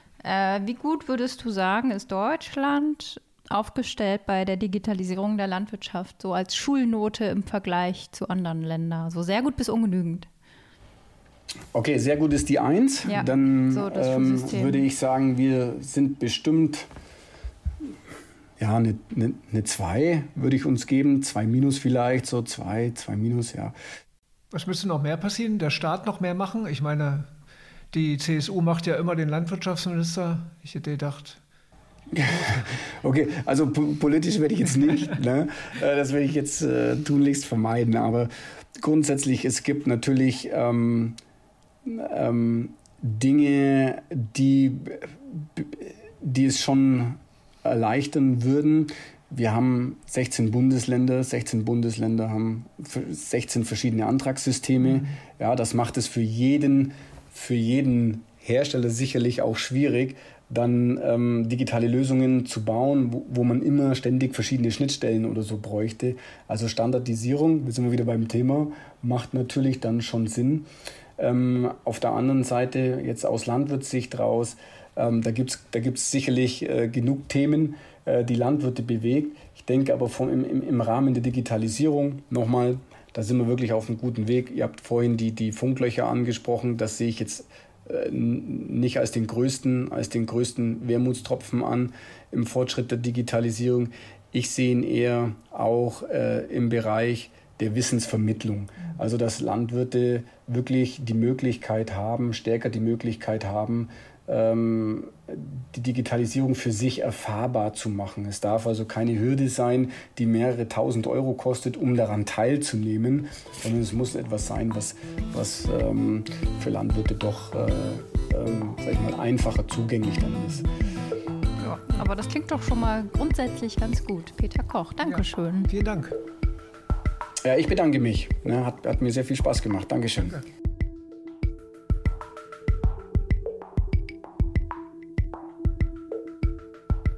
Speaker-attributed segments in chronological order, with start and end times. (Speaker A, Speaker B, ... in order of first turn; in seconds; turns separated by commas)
Speaker A: 0.2-10.3, Speaker B: 11.7-16.9, Speaker A: 13.1-14.8, Speaker B: 18.6-23.7, Speaker C: 24.5-27.3, Speaker C: 27.9-31.4, Speaker B: 32.1-41.2, Speaker B: 41.8-70.7, Speaker B: 71.2-120.7, Speaker A: 121.6-125.7, Speaker C: 125.0-126.2, Speaker B: 127.4-130.4